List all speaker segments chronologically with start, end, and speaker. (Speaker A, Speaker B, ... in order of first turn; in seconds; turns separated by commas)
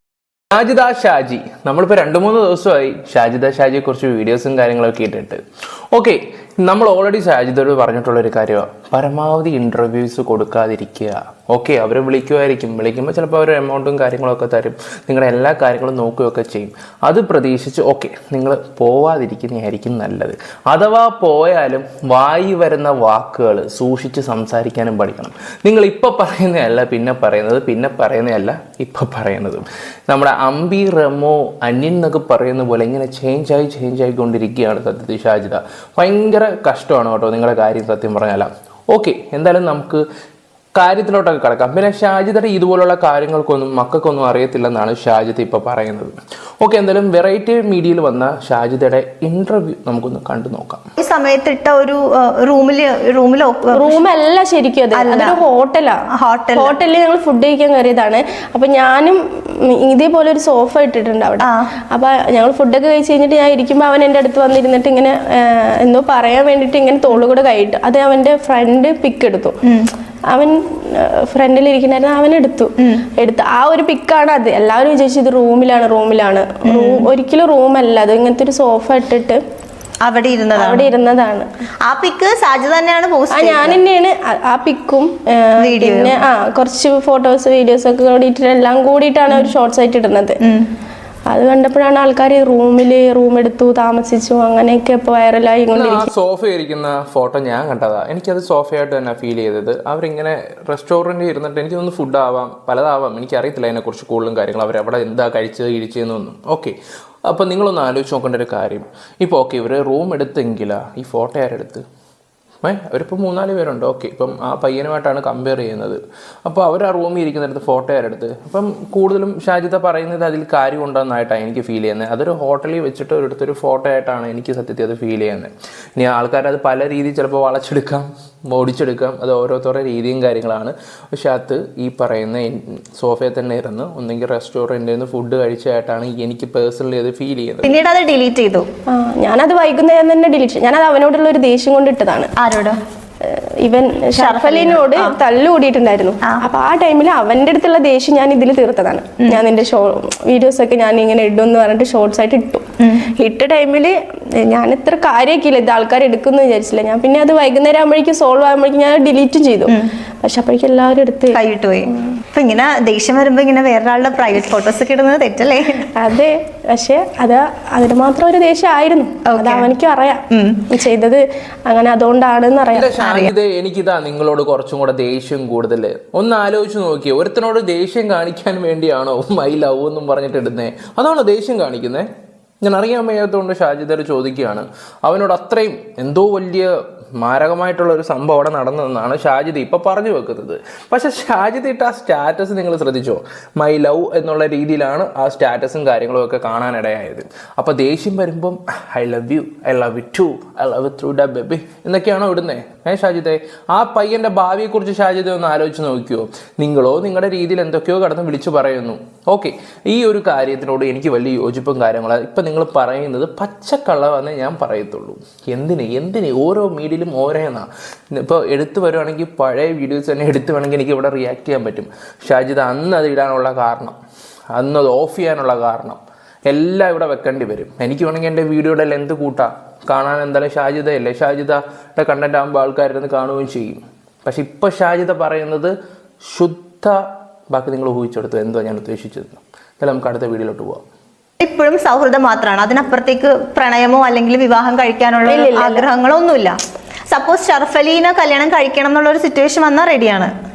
Speaker A: 0.5-5.4, Speaker A: 5.9-40.0, Speaker A: 40.8-50.8, Speaker B: 51.0-54.0, Speaker C: 53.8-56.0, Speaker B: 54.9-55.4, Speaker B: 56.1-56.8, Speaker C: 56.6-69.6, Speaker B: 69.7-69.9, Speaker C: 70.3-79.4, Speaker B: 76.7-77.1, Speaker B: 80.0-80.9, Speaker C: 80.5-81.5, Speaker B: 81.8-83.8, Speaker C: 83.3-90.4, Speaker B: 85.6-86.2, Speaker B: 90.4-90.7, Speaker C: 91.3-96.1, Speaker A: 95.8-111.8, Speaker A: 112.6-137.8, Speaker B: 137.6-138.7, Speaker C: 138.9-142.3, Speaker B: 142.4-142.8, Speaker C: 143.2-161.4, Speaker B: 144.2-145.2, Speaker B: 152.8-153.1, Speaker B: 161.3-165.8, Speaker C: 165.9-173.0, Speaker B: 169.3-169.7, Speaker B: 170.3-170.7, Speaker A: 172.7-182.1, Speaker B: 173.0-173.3, Speaker A: 182.6-224.0, Speaker A: 224.5-237.0, Speaker A: 237.5-240.8, Speaker B: 241.4-246.6, Speaker C: 245.3-245.9, Speaker B: 247.1-250.3